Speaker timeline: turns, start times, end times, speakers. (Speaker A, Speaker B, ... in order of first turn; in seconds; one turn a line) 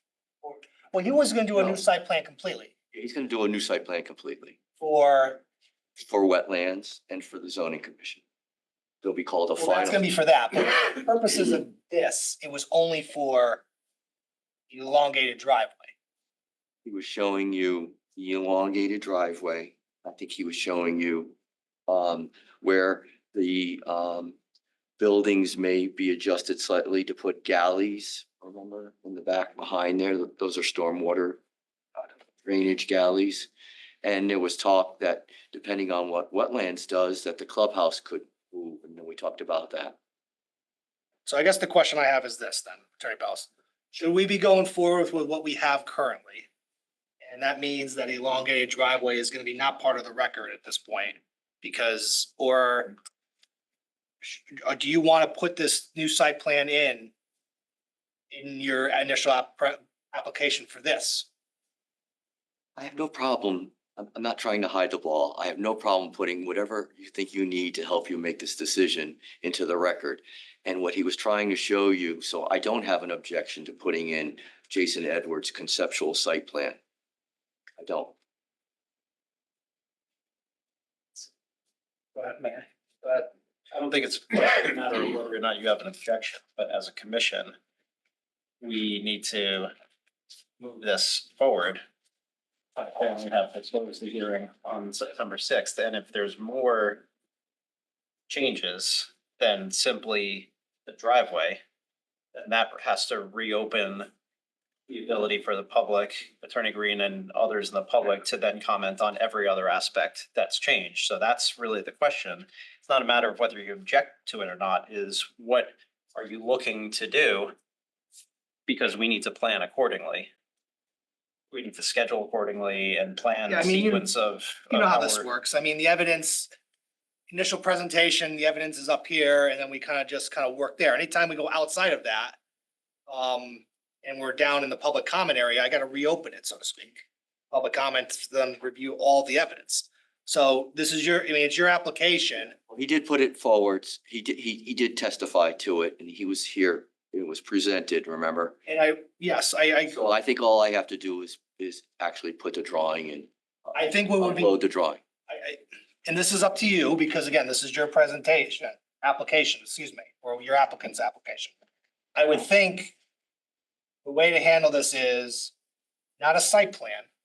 Speaker A: 0.4-2.7
Speaker B: 1.5-1.8
Speaker B: 2.9-4.6
Speaker A: 4.8-5.4
Speaker B: 6.0-8.2
Speaker B: 9.0-10.0
Speaker A: 9.6-13.6
Speaker A: 14.7-15.9
Speaker B: 16.8-21.3
Speaker B: 21.9-24.4
Speaker B: 25.0-31.4
Speaker B: 32.0-33.5
Speaker B: 34.0-39.9
Speaker A: 41.2-46.5
Speaker A: 47.2-53.0
Speaker A: 54.2-57.1
Speaker A: 58.3-61.3
Speaker B: 62.8-76.8
Speaker B: 77.8-78.1
Speaker C: 82.2-87.5
Speaker C: 88.6-89.7
Speaker C: 90.6-91.8
Speaker C: 92.8-97.0
Speaker C: 98.3-101.6
Speaker C: 102.3-104.1
Speaker C: 104.9-117.5
Speaker C: 118.7-120.3
Speaker C: 121.5-125.3
Speaker A: 123.5-124.1
Speaker A: 124.7-126.5
Speaker A: 127.3-132.3
Speaker A: 133.1-142.6
Speaker B: 142.7-148.6
Speaker A: 148.7-150.0
Speaker B: 149.9-155.0
Speaker A: 153.7-154.5
Speaker A: 155.3-161.5
Speaker A: 162.1-162.9
Speaker A: 164.0-165.5
Speaker A: 166.2-167.1